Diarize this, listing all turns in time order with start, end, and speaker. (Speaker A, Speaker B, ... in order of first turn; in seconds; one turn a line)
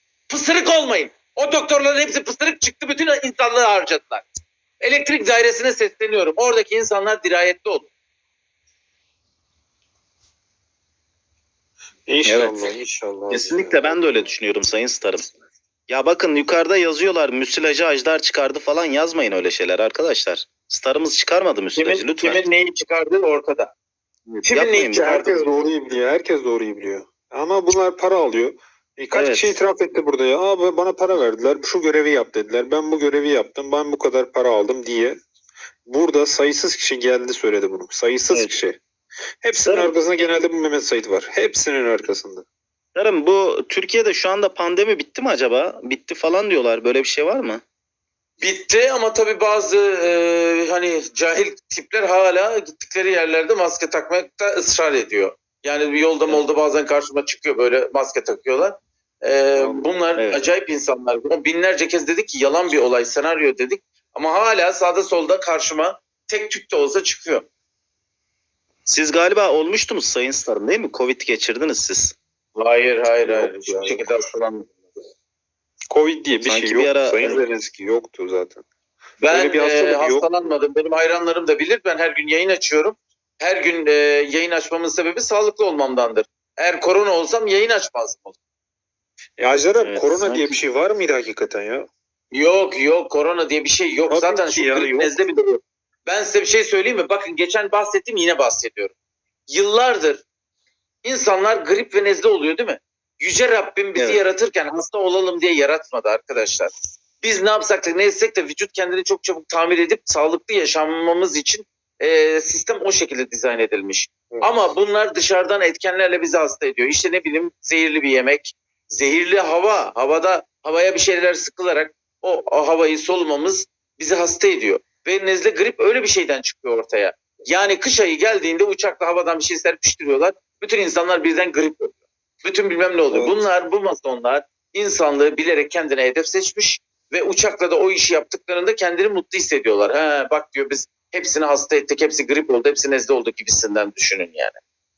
Speaker A: 0.3-4.3
Speaker A: 4.8-7.9
Speaker B: 12.1-13.9
Speaker C: 12.2-12.7
Speaker C: 13.3-15.3
Speaker C: 15.9-22.5
Speaker A: 21.8-23.7
Speaker C: 24.3-25.2
Speaker A: 24.4-25.5
Speaker B: 24.9-35.2
Speaker C: 29.1-29.6
Speaker B: 35.9-38.8
Speaker B: 39.4-42.5
Speaker C: 39.6-39.9
Speaker C: 43.0-47.6
Speaker A: 48.4-67.5
Speaker B: 59.6-59.9
Speaker C: 60.2-60.4
Speaker C: 68.9-72.1
Speaker A: 72.6-74.7
Speaker B: 73.2-74.0
Speaker B: 75.9-78.6
Speaker C: 76.4-77.4
Speaker A: 79.2-88.4
Speaker B: 79.3-80.3
Speaker B: 89.4-91.9
Speaker C: 89.8-90.6
Speaker A: 92.3-98.9
Speaker B: 94.1-95.1
Speaker A: 99.5-100.2
Speaker A: 101.0-144.6
Speaker C: 104.0-104.2
Speaker B: 133.1-133.4